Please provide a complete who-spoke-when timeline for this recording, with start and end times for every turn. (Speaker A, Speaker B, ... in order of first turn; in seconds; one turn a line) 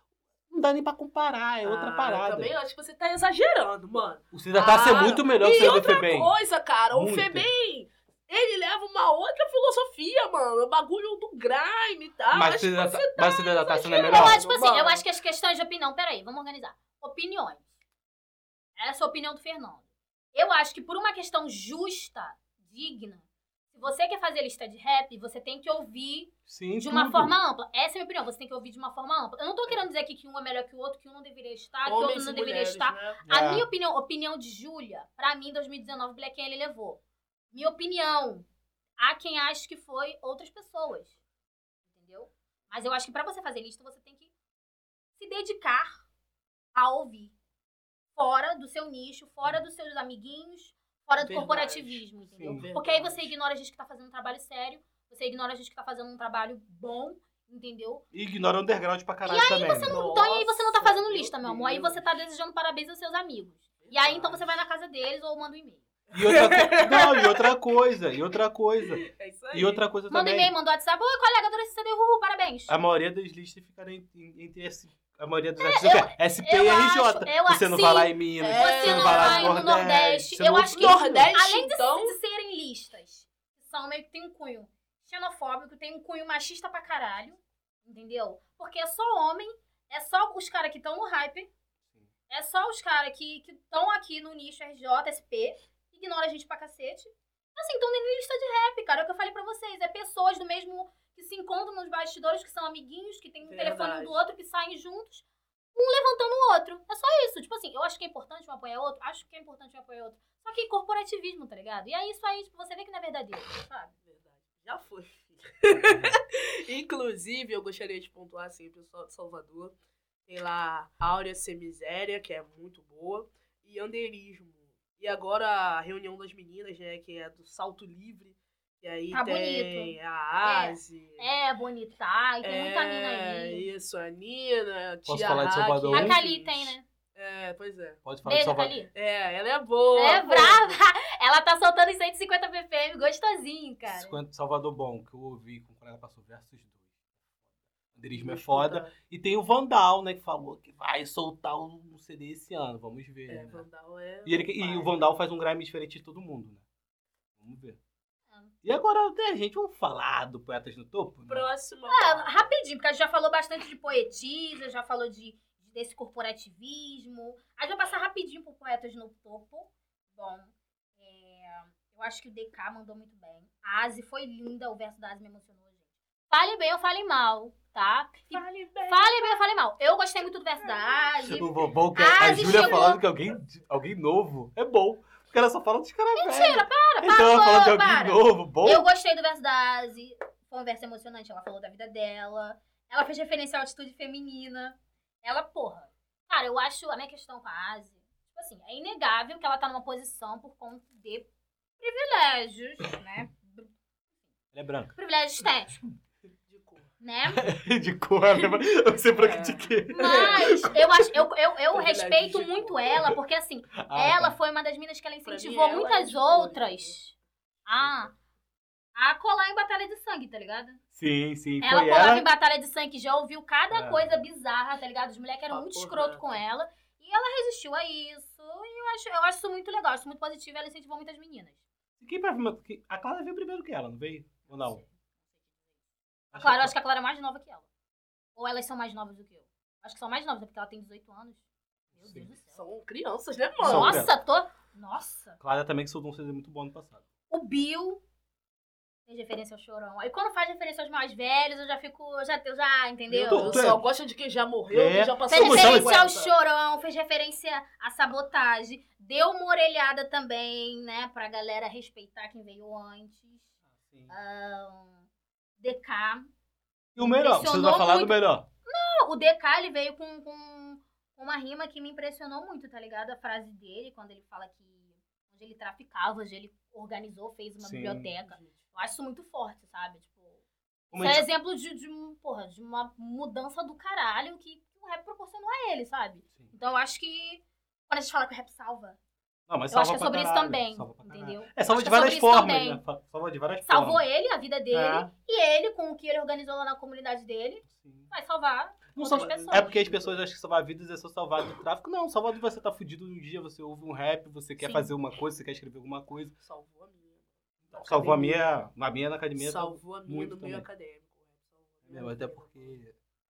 Speaker A: 0.5-2.5
Speaker B: 1.6-15.0
Speaker A: 4.3-6.3
Speaker A: 6.9-7.5
Speaker A: 12.3-14.4
Speaker C: 14.1-17.7
Speaker C: 18.8-19.8
Speaker C: 20.3-37.0
Speaker A: 26.5-27.3
Speaker B: 31.9-33.2
Speaker A: 33.2-33.7
Speaker C: 37.5-38.5
Speaker C: 39.0-41.2
Speaker C: 41.9-44.3
Speaker C: 45.2-46.1
Speaker C: 46.8-47.3
Speaker C: 48.1-58.0
Speaker B: 51.2-53.3
Speaker A: 52.4-52.7
Speaker A: 58.1-60.0
Speaker C: 59.2-65.8
Speaker B: 59.9-62.1
Speaker B: 63.8-64.6
Speaker B: 66.1-67.6
Speaker A: 66.1-70.5
Speaker B: 68.9-69.8
Speaker C: 70.1-72.8
Speaker A: 72.7-81.3
Speaker C: 75.6-91.5
Speaker B: 78.4-79.7
Speaker B: 80.7-82.2
Speaker C: 92.3-113.9
Speaker B: 103.5-104.2
Speaker B: 114.1-119.8
Speaker A: 115.7-116.2
Speaker B: 120.3-131.3
Speaker C: 129.1-133.7
Speaker B: 132.4-138.0
Speaker A: 135.1-136.2
Speaker C: 135.9-136.8
Speaker A: 138.0-138.8
Speaker C: 138.2-138.9
Speaker B: 138.9-140.8
Speaker C: 139.9-144.2
Speaker A: 143.9-146.9
Speaker A: 147.9-153.7
Speaker B: 148.1-148.9
Speaker B: 153.3-155.1
Speaker A: 154.2-156.6
Speaker A: 157.4-157.8
Speaker A: 158.6-161.5
Speaker B: 161.3-162.5
Speaker C: 161.9-183.0
Speaker B: 178.3-179.5
Speaker B: 180.6-181.1
Speaker A: 181.2-188.9
Speaker C: 186.1-201.3
Speaker C: 201.8-203.7
Speaker A: 204.5-204.9
Speaker C: 204.9-205.8
Speaker B: 206.5-206.9
Speaker C: 207.0-207.4
Speaker A: 207.3-210.9
Speaker B: 209.1-210.8
Speaker C: 209.9-217.1
Speaker B: 211.7-213.1
Speaker A: 213.8-214.4
Speaker B: 215.2-216.9
Speaker C: 217.7-218.1
Speaker C: 219.0-220.8
Speaker A: 220.9-222.3
Speaker C: 221.6-231.6
Speaker A: 223.7-224.2
Speaker B: 225.5-226.4
Speaker A: 232.0-234.8
Speaker C: 234.5-234.9
Speaker A: 236.3-236.7
Speaker C: 236.3-237.7
Speaker C: 238.4-241.4
Speaker A: 241.9-242.3
Speaker C: 241.9-242.6
Speaker B: 242.5-244.0
Speaker A: 243.6-244.1
Speaker C: 243.6-245.4
Speaker A: 245.4-247.0
Speaker C: 247.3-248.0
Speaker C: 249.1-253.6
Speaker B: 253.1-256.4
Speaker A: 253.3-253.8
Speaker A: 254.7-255.9
Speaker C: 255.3-263.5
Speaker A: 263.7-264.1
Speaker C: 264.1-265.1
Speaker C: 265.6-266.3
Speaker A: 267.0-268.5
Speaker C: 267.0-280.4
Speaker A: 277.6-278.1
Speaker B: 278.2-278.6
Speaker A: 280.9-281.3
Speaker C: 280.9-289.0
Speaker A: 289.5-294.0
Speaker C: 289.7-292.8
Speaker C: 293.7-299.8
Speaker A: 294.7-295.1
Speaker A: 297.7-298.1
Speaker A: 298.9-306.4
Speaker B: 299.0-300.2
Speaker C: 304.6-304.9
Speaker B: 306.4-308.4
Speaker A: 307.7-310.7
Speaker B: 309.4-312.8
Speaker A: 311.9-312.9